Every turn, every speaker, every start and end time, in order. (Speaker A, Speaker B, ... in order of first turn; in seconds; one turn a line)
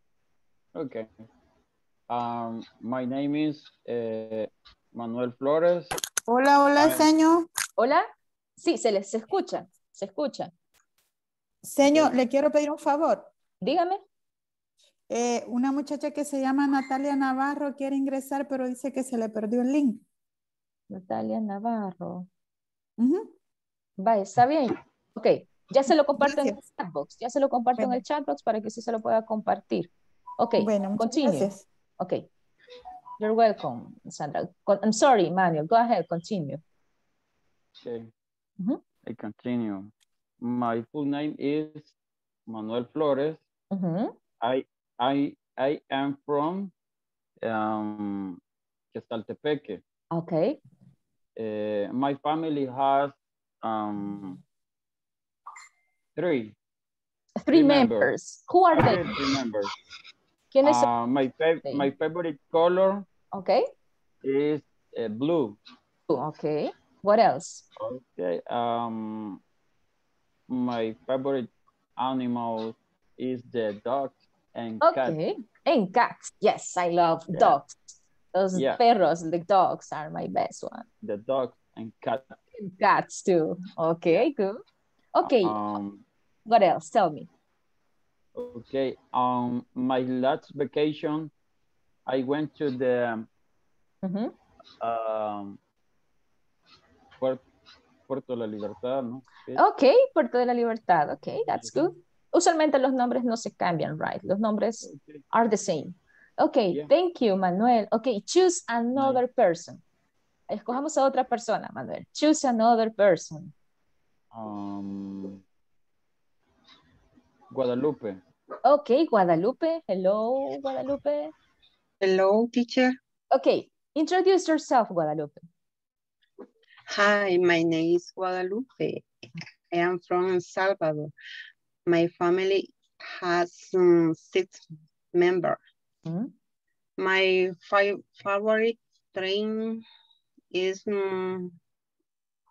Speaker A: 0.7-1.3
Speaker A: 2.1-5.9
Speaker B: 6.3-7.5
Speaker A: 6.8-7.1
Speaker C: 7.8-8.1
Speaker C: 8.6-10.5
Speaker B: 11.6-13.3
Speaker A: 11.8-12.1
Speaker C: 13.6-14.0
Speaker B: 15.1-20.0
Speaker C: 20.9-22.3
Speaker B: 23.0-23.3
Speaker C: 24.0-32.3
Speaker B: 26.2-26.6
Speaker B: 27.8-28.0
Speaker B: 30.6-31.6
Speaker C: 33.2-36.6
Speaker A: 37.8-38.1
Speaker A: 39.0-41.9
Speaker A: 42.5-43.4
Speaker C: 43.7-44.1
Speaker A: 44.4-46.7
Speaker A: 47.4-48.4
Speaker A: 48.9-49.8
Speaker C: 50.1-50.6
Speaker A: 51.4-54.4
Speaker A: 56.2-56.6
Speaker C: 57.4-59.0
Speaker A: 57.5-58.1
Speaker A: 58.7-59.7
Speaker C: 60.5-60.9
Speaker A: 60.6-63.1
Speaker C: 63.3-63.7
Speaker A: 64.2-65.6
Speaker C: 66.1-67.6
Speaker A: 67.8-69.4
Speaker A: 70.5-75.2
Speaker C: 74.8-77.8
Speaker C: 78.3-80.9
Speaker A: 78.5-78.8
Speaker A: 81.0-82.4
Speaker C: 82.5-84.6
Speaker C: 85.2-85.5
Speaker A: 85.2-86.0
Speaker C: 86.5-87.3
Speaker A: 88.3-91.3
Speaker A: 92.1-93.3
Speaker C: 94.0-94.3
Speaker A: 94.8-95.6
Speaker A: 98.1-99.6
Speaker C: 99.6-109.8
Speaker A: 101.5-101.9
Speaker A: 104.8-105.2
Speaker A: 108.9-109.2
Speaker C: 110.5-113.5
Speaker A: 114.3-115.4
Speaker A: 117.5-118.2
Speaker C: 118.6-121.3
Speaker D: 122.0-123.0
Speaker C: 123.3-125.5
Speaker D: 126.9-129.1
Speaker D: 129.7-131.1
Speaker D: 131.9-134.6
Speaker D: 135.1-135.6
Speaker C: 136.1-136.3
Speaker D: 137.0-139.8
Speaker D: 140.5-141.5